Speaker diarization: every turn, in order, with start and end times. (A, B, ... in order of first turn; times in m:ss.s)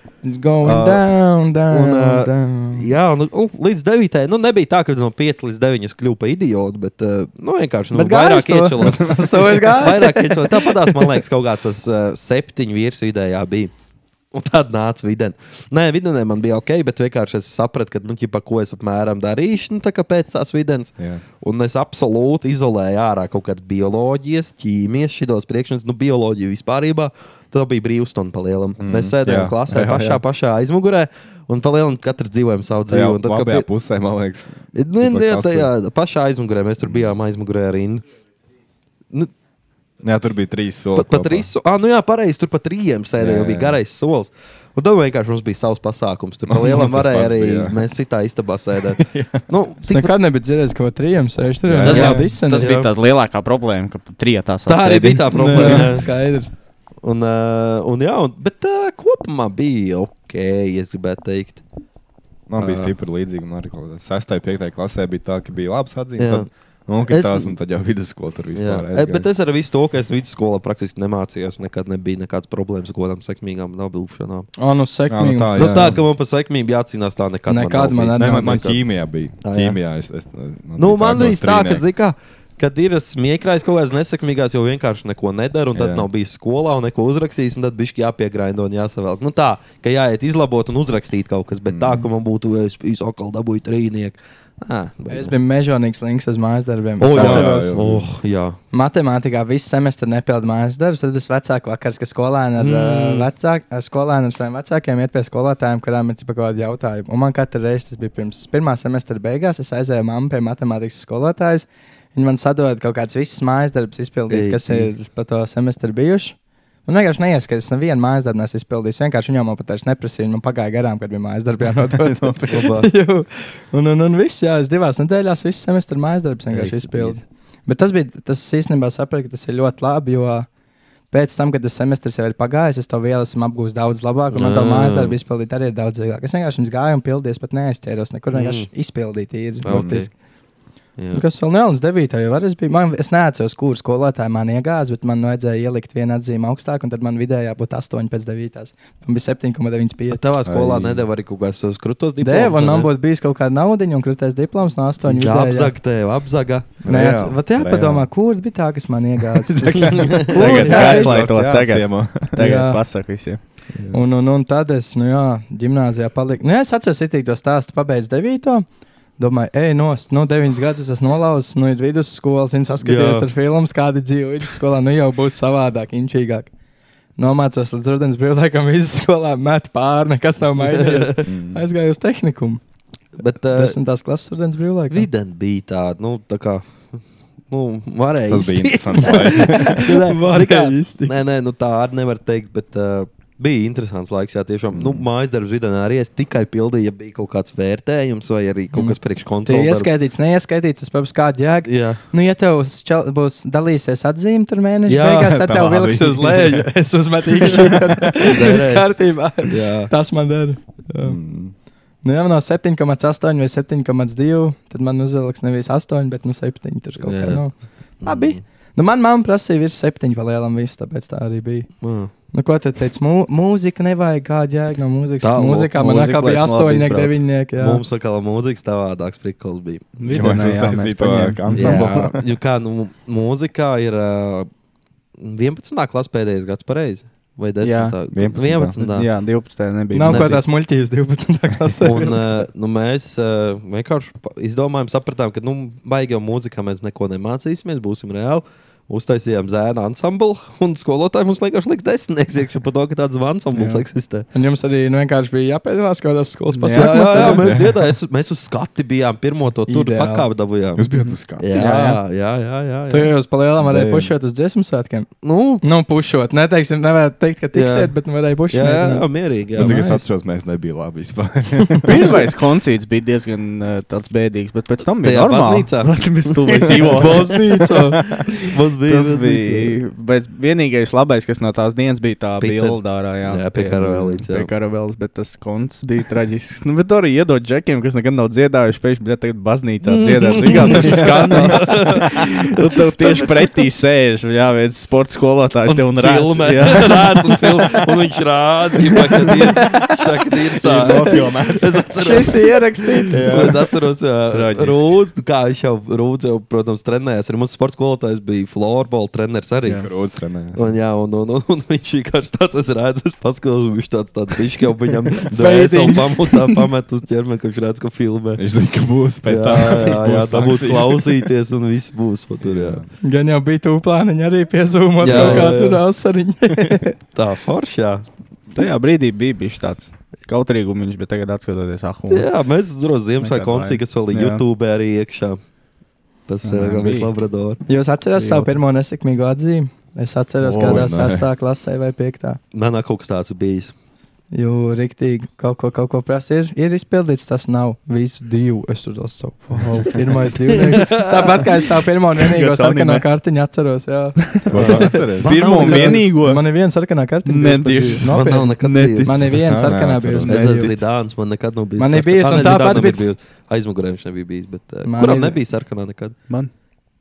0:00.2-0:02.9 A
0:00.6-0:13.7 B
0:07.9-0:11.1 A
0:14.3-0:33.7 B
0:21.0-0:21.2 C
0:28.8-0:30.2 C
0:32.9-0:35.7 C
0:34.7-0:38.0 B
0:36.8-0:37.1 C
0:40.0-0:41.5 C
0:41.0-0:50.1 B
0:43.2-0:43.8 C
0:46.5-0:47.8 C
0:48.9-0:49.4 C
0:49.9-0:52.7 A
0:51.6-0:52.2 C
0:51.8-0:52.9 B
0:51.8-0:55.9 D
0:54.7-0:56.1 B
0:55.3-0:56.5 A
0:57.0-1:01.6 B
1:02.5-1:09.3 C
1:02.6-1:02.9 B
1:06.2-1:06.5 B
1:07.0-1:07.6 B
1:08.6-1:14.5 B
1:14.6-1:16.0 A
1:15.1-1:16.0 C
1:15.6-1:18.8 B
1:17.5-1:18.7 A
1:18.2-1:21.8 C
1:19.4-1:19.8 B
1:20.8-1:35.3 B
1:25.7-1:26.1 C
1:31.7-1:32.0 C
1:35.1-1:37.8 A
1:37.0-1:38.6 B
1:37.0-1:38.2 C
1:38.7-2:10.5 A
1:42.6-1:43.3 B
1:54.3-1:54.9 B
2:01.8-2:02.7 C
2:02.5-2:02.9 B
2:06.5-2:07.2 B
2:11.1-2:20.1 A
2:14.3-2:15.2 B
2:18.3-2:18.7 B
2:19.6-2:20.1 B
2:19.6-2:20.1 C
2:21.0-2:21.2 B
2:21.1-2:30.2 A
2:30.1-2:32.9 B
2:30.4-2:31.1 C
2:32.2-2:35.7 A
2:35.0-2:36.8 B
2:36.8-2:38.1 C
2:36.9-2:41.1 A
2:39.9-2:42.4 C
2:40.0-2:41.0 B
2:40.3-2:43.4 D
2:42.4-2:42.8 A
2:43.7-2:44.0 C
2:43.9-2:48.7 A
2:49.2-2:56.5 A
2:52.8-2:53.3 B
2:57.2-3:02.6 A
3:00.6-3:01.3 B
3:01.2-3:01.6 C
3:03.2-3:03.8 B
3:03.5-3:05.1 A
3:04.9-3:07.0 B
3:07.5-3:19.9 B
3:08.3-3:10.0 C
3:09.0-3:11.1 A
3:14.7-3:15.1 C
3:19.4-3:31.2 A
3:21.6-3:22.0 B
3:24.9-3:25.4 B
3:25.1-3:26.8 C
3:28.2-3:29.9 B
3:31.0-3:31.5 C
3:32.0-3:47.8 A
3:37.0-3:38.4 B
3:41.8-3:42.1 B
3:45.2-3:45.7 B
3:45.8-3:47.2 D
3:47.6-3:50.5 B
3:50.0-3:51.9 D
3:50.0-3:52.2 C
3:51.6-3:54.5 B
3:55.2-3:59.1 B
3:57.6-3:58.0 D
3:58.1-3:58.8 C
3:58.8-4:00.4 D
3:59.9-4:02.2 A
4:01.8-4:14.3 B
4:13.6-4:17.4 A
4:16.6-4:17.4 D
4:16.7-4:20.8 B
4:17.4-4:17.8 C
4:19.7-4:20.3 A
4:20.8-4:21.5 C
4:20.9-4:22.0 D
4:21.4-4:23.1 B
4:22.9-4:25.1 A
4:23.6-4:24.1 C
4:25.2-4:25.6 B
4:25.6-4:30.0 A
4:27.5-4:27.9 B
4:28.5-4:29.8 B
4:29.6-4:32.2 C
4:31.8-4:37.3 D
4:35.0-4:37.3 B
4:36.9-4:38.0 A
4:38.2-4:39.7 B
4:38.8-4:57.8 D
4:42.4-4:44.5 B
4:49.8-4:53.6 B
4:50.8-4:51.8 C
4:55.7-5:02.6 B
4:59.3-4:59.7 D
5:00.6-5:01.8 D
5:02.0-5:03.2 A
5:03.1-5:09.9 B
5:03.2-5:03.5 C
5:03.2-5:03.5 D
5:04.3-5:04.9 D
5:09.7-5:10.7 C
5:10.5-5:18.4 B
5:15.3-5:16.6 A
5:18.4-5:21.3 C
5:19.3-5:22.8 B
5:22.4-5:22.9 C
5:23.0-5:27.0 A
5:25.0-5:25.8 B
5:25.1-5:25.5 D
5:25.1-5:25.6 C
5:27.1-5:28.0 B
5:28.5-5:32.3 D
5:32.1-5:35.4 B
5:33.2-5:34.4 D
5:36.3-5:37.6 B
5:36.4-5:37.1 D
5:37.7-5:42.4 A
5:38.2-5:38.5 D
5:40.4-5:40.9 D
5:40.6-5:41.3 C
5:42.5-5:43.7 B
5:44.3-6:00.8 A
5:50.7-5:51.4 B
5:52.2-5:53.1 D
5:54.3-5:56.5 D
5:54.5-5:56.1 C
5:57.2-5:59.4 D
5:58.1-5:59.3 B
5:59.3-6:00.4 C
6:00.2-6:06.2 B
6:00.3-6:00.7 D
6:01.8-6:03.0 A
6:04.8-6:05.4 A